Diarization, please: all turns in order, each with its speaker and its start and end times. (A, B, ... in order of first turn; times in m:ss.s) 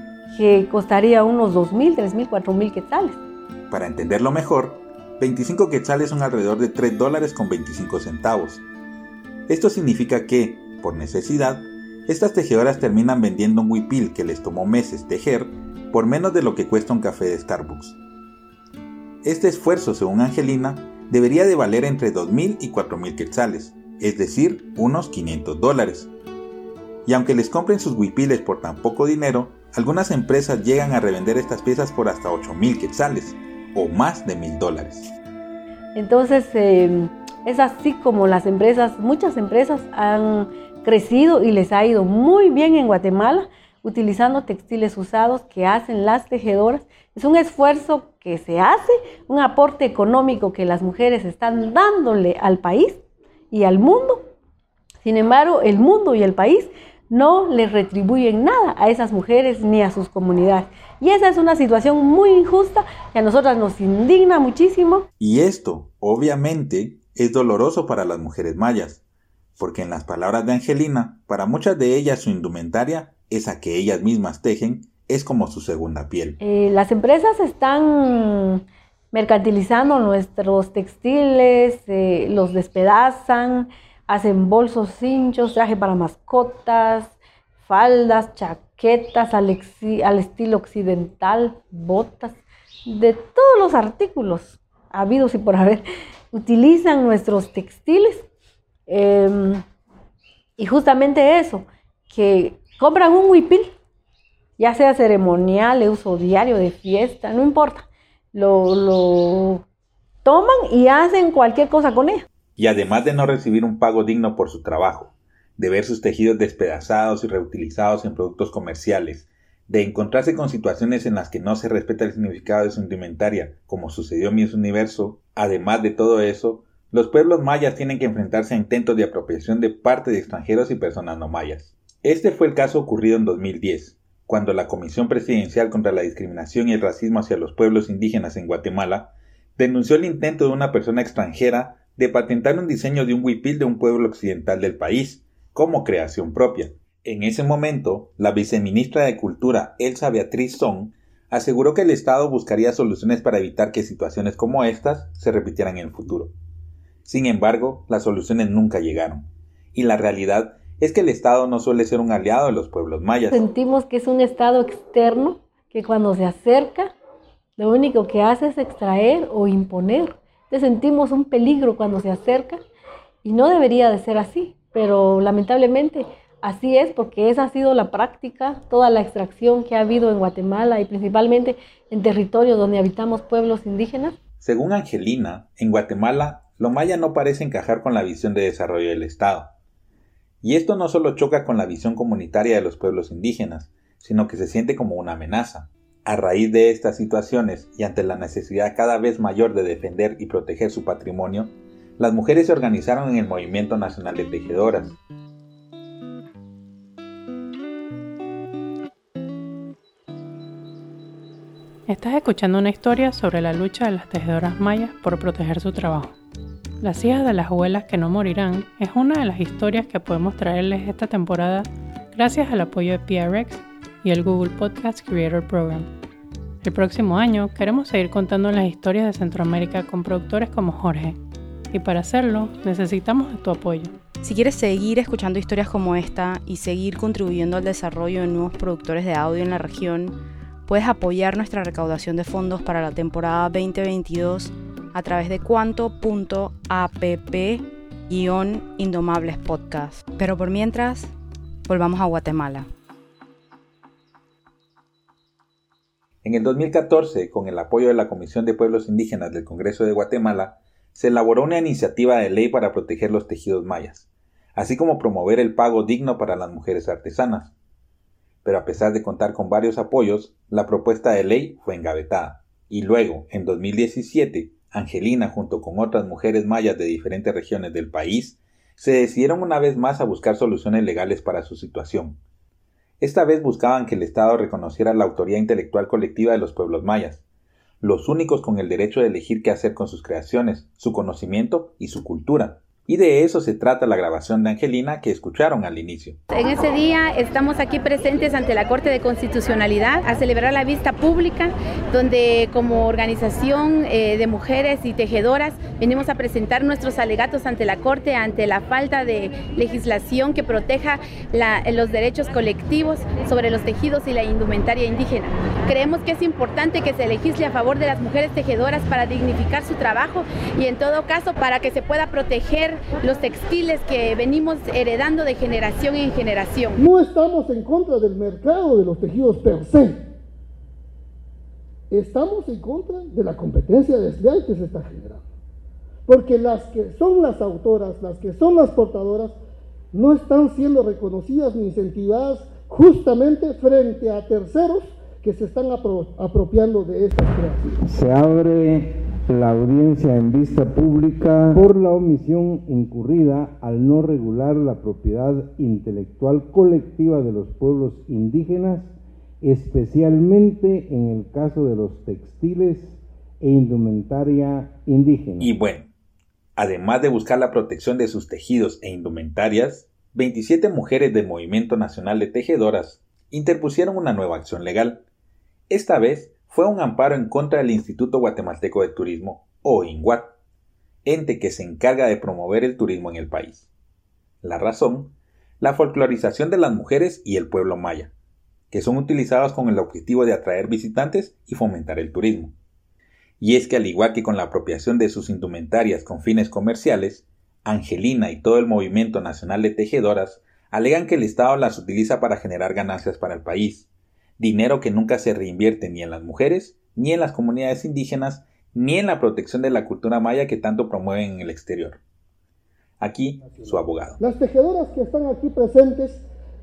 0:00.3-0:03.2 A
0:03.7-0:08.6 B
0:09.5-0:18.0 B
0:19.2-0:26.1 B
0:27.1-0:35.1 B
0:36.0-0:53.0 A
0:53.5-0:54.2 A
0:55.0-1:05.1 A
1:05.2-1:09.0 B
1:09.6-1:16.4 B
1:16.4-1:27.2 A
1:27.7-1:38.3 A
1:38.9-1:39.6 A
1:40.6-1:43.7 A
1:44.6-1:49.6 A
1:50.2-1:52.3 A
1:52.6-2:36.3 B
2:37.0-2:43.4 B
2:43.3-2:46.9 A
2:47.6-2:52.6 A
2:53.2-3:04.2 A
3:04.4-3:09.5 B
3:10.4-3:25.0 B
3:31.9-3:36.1 C
3:36.8-3:45.9 C
3:46.6-3:51.2 C
3:51.7-3:54.0 C
3:54.2-4:11.1 D
4:11.7-4:12.7 D
4:16.2-4:27.5 B
4:28.4-4:42.2 B
4:43.0-4:47.2 B
4:47.8-4:56.2 B
4:56.3-5:26.8 E
5:26.8-5:30.0 F
5:31.9-5:35.2 F
5:36.1-5:39.4 F
5:39.9-5:47.7 F
5:47.7-6:05.5 G
6:05.4-6:05.9 B
6:06.6-6:15.0 B
6:15.7-6:20.4 B
6:21.0-6:23.7 B
6:24.4-6:28.1 B
6:28.7-6:32.5 B
6:33.4-6:43.9 B
6:44.4-6:52.0 B
6:53.0-6:54.2 B
6:53.4-6:56.2 F